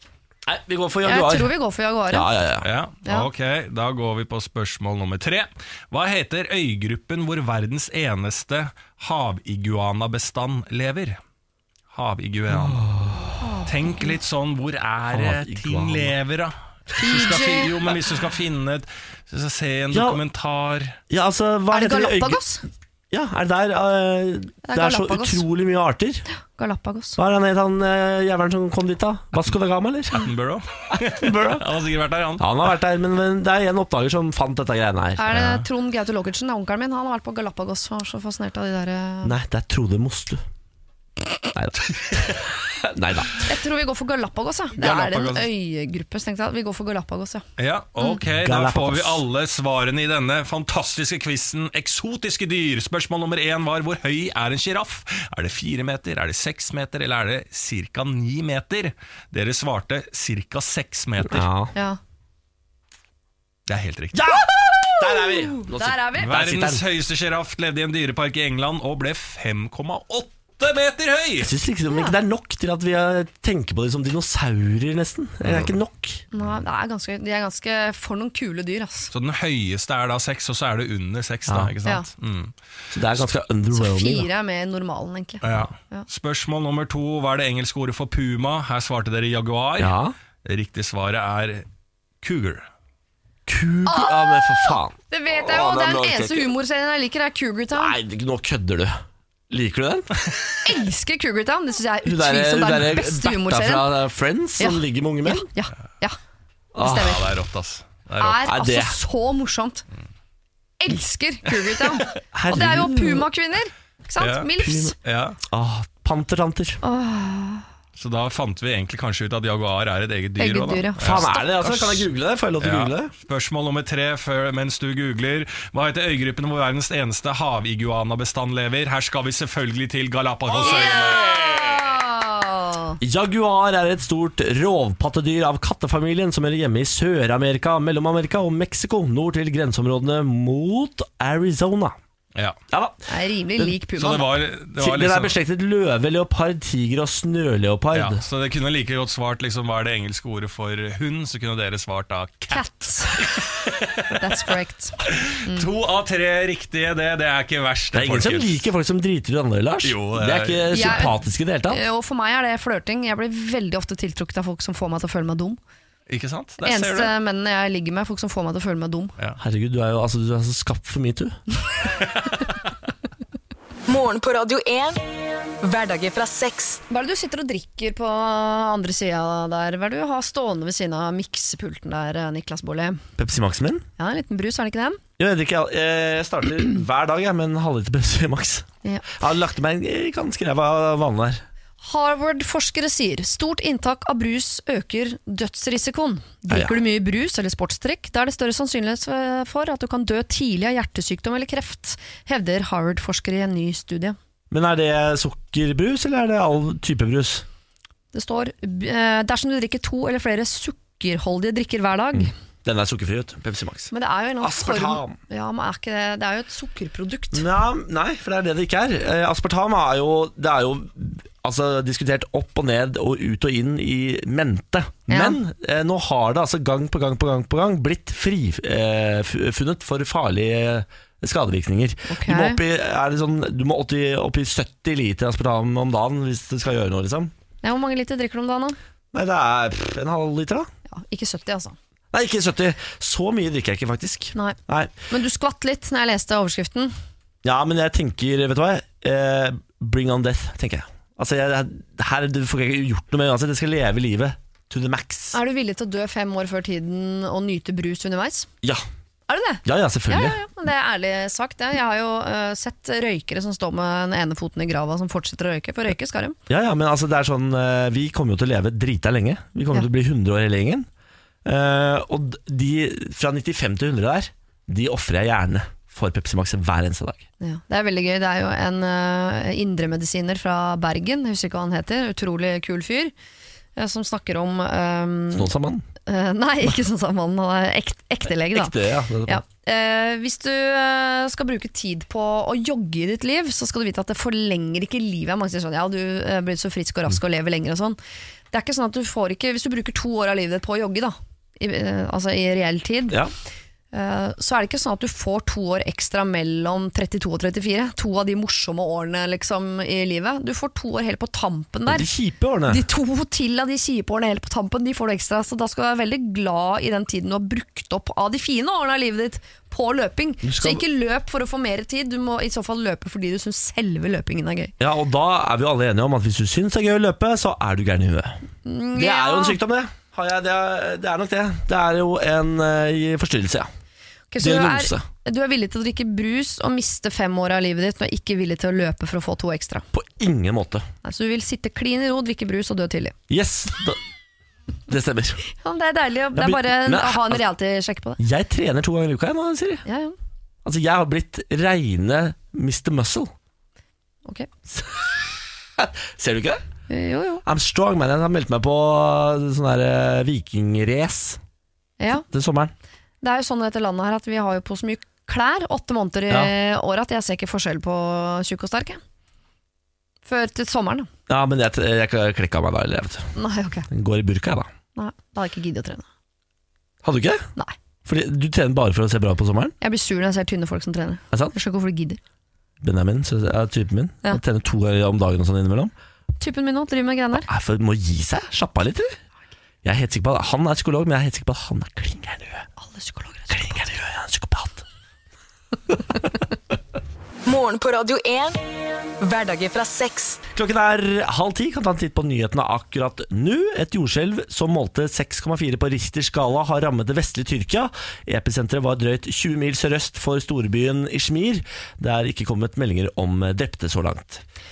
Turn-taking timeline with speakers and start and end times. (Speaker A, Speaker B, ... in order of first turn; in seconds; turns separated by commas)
Speaker A: 0.5-1.5, Speaker B: 1.1-2.3, Speaker A: 2.1-2.7, Speaker C: 2.6-11.2, Speaker C: 11.9-12.9, Speaker A: 12.5-13.4, Speaker B: 13.4-14.2, Speaker C: 13.7-21.0, Speaker A: 15.1-16.1, Speaker B: 17.0-17.9, Speaker A: 19.9-20.2, Speaker A: 21.1-22.4, Speaker B: 21.7-22.6, Speaker A: 23.1-26.2, Speaker B: 24.6-25.4, Speaker B: 26.6-27.2, Speaker A: 27.2-30.2, Speaker C: 30.1-32.4, Speaker A: 31.1-31.7, Speaker A: 32.4-35.6, Speaker B: 35.2-39.3, Speaker A: 39.2-40.4, Speaker A: 41.5-43.5, Speaker B: 43.5-47.5, Speaker C: 44.8-45.5, Speaker C: 47.6-61.5, Speaker A: 48.4-49.2, Speaker A: 61.2-61.7, Speaker C: 63.7-64.3, Speaker A: 64.1-66.9, Speaker B: 64.4-66.3, Speaker C: 66.2-71.5, Speaker A: 71.4-76.2, Speaker B: 71.9-72.2, Speaker C: 75.4-75.8, Speaker B: 76.3-79.1, Speaker C: 79.1-82.5, Speaker A: 82.9-84.3, Speaker B: 83.7-86.1, Speaker C: 85.4-91.7, Speaker A: 89.8-90.2, Speaker C: 92.2-92.7, Speaker A: 93.5-96.5, Speaker B: 93.9-98.0, Speaker A: 97.7-100.3, Speaker B: 100.7-104.0, Speaker A: 102.0-105.5, Speaker B: 104.6-106.2, Speaker A: 106.8-107.2, Speaker B: 106.8-107.3, Speaker C: 106.9-108.5, Speaker B: 108.2-109.8, Speaker A: 108.5-109.0, Speaker B: 110.8-114.9, Speaker A: 112.3-113.3, Speaker C: 114.2-115.4, Speaker A: 114.6-115.0, Speaker A: 115.5-116.8, Speaker B: 116.8-117.7, Speaker C: 118.0-122.1, Speaker B: 120.4-121.3, Speaker A: 121.0-123.1, Speaker C: 122.6-131.9, Speaker B: 130.6-133.0, Speaker A: 133.0-142.0, Speaker A: 142.7-143.0, Speaker B: 143.1-144.4, Speaker C: 144.0-145.4, Speaker A: 144.8-148.2, Speaker C: 147.9-154.2, Speaker B: 152.5-153.2, Speaker B: 154.2-155.7, Speaker C: 155.0-158.6, Speaker A: 157.9-161.8, Speaker C: 159.8-161.1, Speaker B: 160.7-165.6, Speaker C: 166.1-167.1, Speaker B: 166.6-169.2, Speaker A: 169.4-171.4, Speaker D: 173.9-175.0, Speaker D: 175.6-176.8, Speaker B: 176.9-183.0, Speaker A: 183.2-183.9, Speaker B: 184.0-185.0, Speaker A: 185.2-191.4, Speaker B: 191.8-204.2, Speaker A: 196.5-196.8, Speaker A: 204.5-207.4, Speaker B: 208.1-212.3, Speaker A: 212.2-215.2, Speaker B: 213.9-217.5, Speaker A: 217.3-237.3, Speaker B: 225.1-225.4, Speaker B: 232.1-232.6, Speaker B: 237.6-238.8, Speaker A: 239.1-240.7, Speaker B: 240.9-241.8, Speaker A: 242.1-244.9, Speaker B: 245.1-246.9, Speaker A: 247.4-255.4, Speaker B: 255.3-258.5, Speaker B: 259.3-266.4, Speaker A: 259.6-260.4, Speaker A: 266.5-270.9, Speaker A: 271.4-277.2, Speaker B: 277.4-283.1, Speaker B: 283.8-285.5, Speaker A: 285.3-285.9, Speaker B: 286.1-288.7, Speaker A: 288.5-289.4, Speaker B: 289.3-298.0, Speaker B: 298.5-303.2, Speaker B: 303.9-312.1, Speaker A: 311.9-312.8, Speaker B: 312.7-324.7, Speaker A: 320.4-320.8, Speaker A: 324.8-328.4, Speaker B: 328.6-329.6, Speaker A: 328.9-333.7, Speaker B: 334.3-339.9, Speaker A: 334.4-335.1, Speaker A: 339.9-340.9, Speaker B: 341.0-343.1, Speaker A: 343.3-344.0, Speaker A: 344.9-345.5, Speaker B: 345.5-348.2, Speaker A: 346.4-347.4, Speaker A: 348.2-349.8, Speaker B: 349.9-350.2, Speaker A: 350.6-353.3, Speaker A: 354.7-356.6, Speaker B: 356.9-357.4, Speaker A: 357.4-361.4, Speaker B: 362.0-362.3, Speaker A: 362.2-362.7, Speaker B: 363.2-369.0, Speaker B: 370.3-371.1, Speaker A: 371.3-373.3, Speaker B: 373.4-373.9, Speaker A: 373.9-374.7, Speaker B: 375.0-376.1, Speaker A: 377.0-377.5, Speaker A: 378.1-379.7, Speaker B: 379.8-382.2, Speaker A: 382.8-385.9, Speaker B: 386.4-387.5, Speaker A: 387.5-389.2, Speaker A: 389.8-392.7, Speaker B: 392.8-393.9, Speaker A: 393.5-394.8, Speaker D: 397.4-398.6, Speaker D: 399.2-400.4, Speaker A: 400.5-414.4